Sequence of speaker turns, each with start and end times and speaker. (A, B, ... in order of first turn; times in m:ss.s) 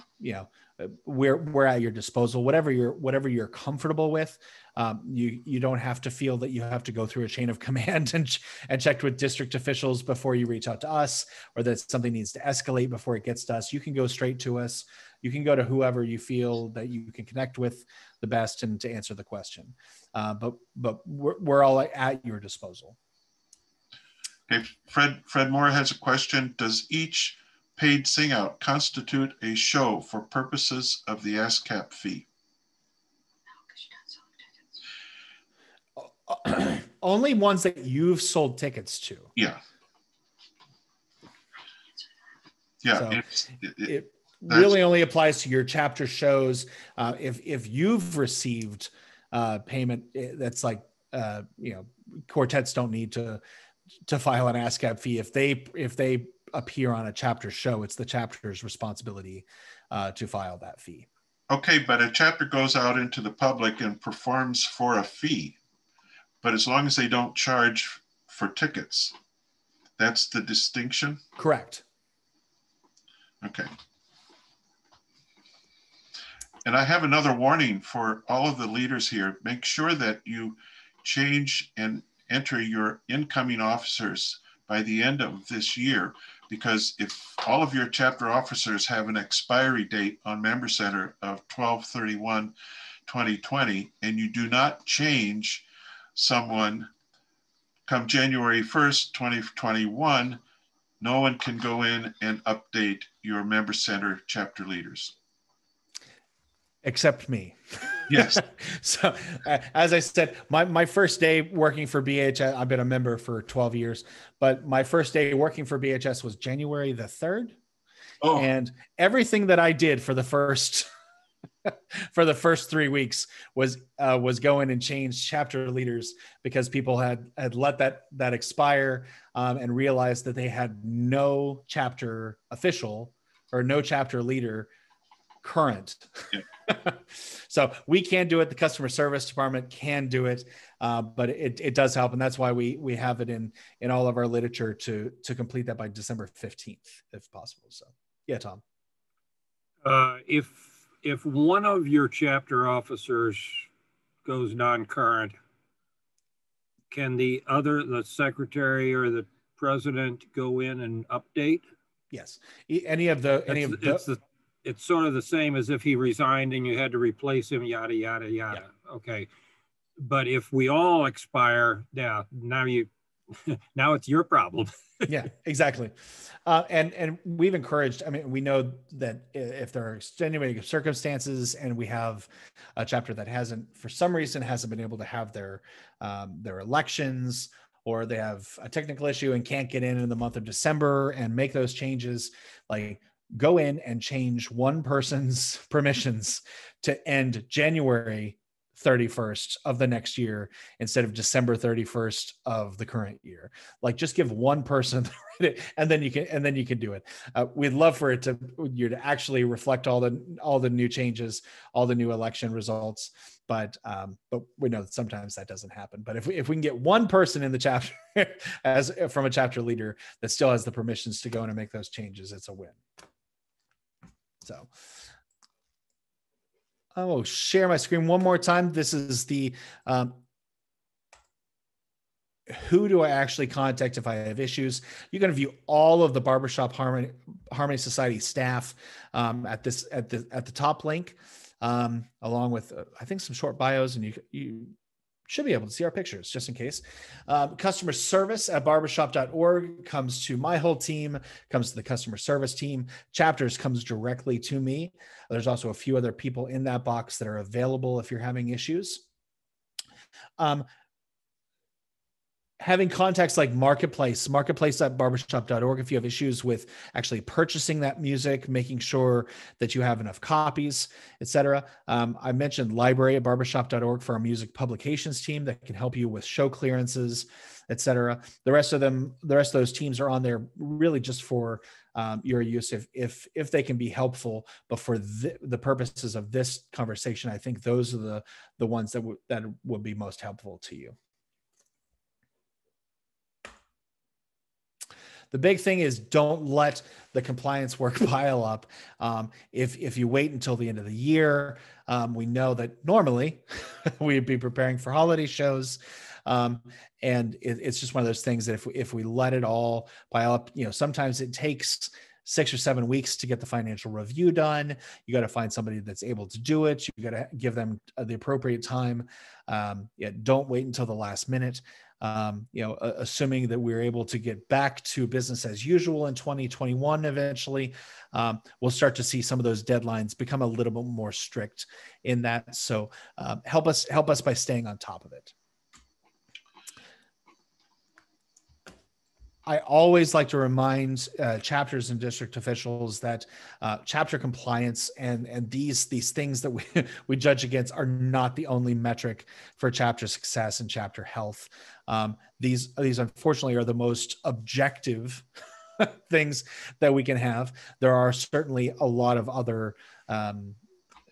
0:00.2-0:23.0 A
0:24.5-0:32.3 B
0:36.0-0:39.3 A
0:42.8-0:43.9 B
0:43.0-0:43.2 A
0:43.8-0:53.4 A
0:44.5-0:44.8 B
0:54.1-1:01.1 A
1:01.5-1:05.6 B
1:06.4-1:09.2 B
1:10.0-1:11.2 B
1:11.4-1:11.8 A
1:13.4-1:13.7 B
1:16.6-1:32.6 B
1:33.1-1:36.9 B
1:37.9-1:40.4 B
1:41.0-1:45.2 B
1:46.8-1:57.6 A
1:48.1-1:48.4 B
1:58.2-1:58.5 B
1:58.3-2:00.9 A
2:01.6-2:14.7 A
2:15.4-2:28.6 A
2:29.8-2:33.7 C
2:34.2-2:35.4 C
2:36.9-2:41.6 C
2:42.1-2:44.0 A
2:43.5-2:49.3 C
2:50.0-2:55.1 C
2:55.1-3:42.8 A
3:44.4-3:44.7 A
3:47.0-3:50.2 A
3:52.5-4:04.7 A
4:05.3-4:19.0 A
4:20.4-4:20.7 A
4:22.6-4:51.0 A
4:55.3-5:35.3 A
5:39.5-5:55.2 A
5:55.8-6:00.6 A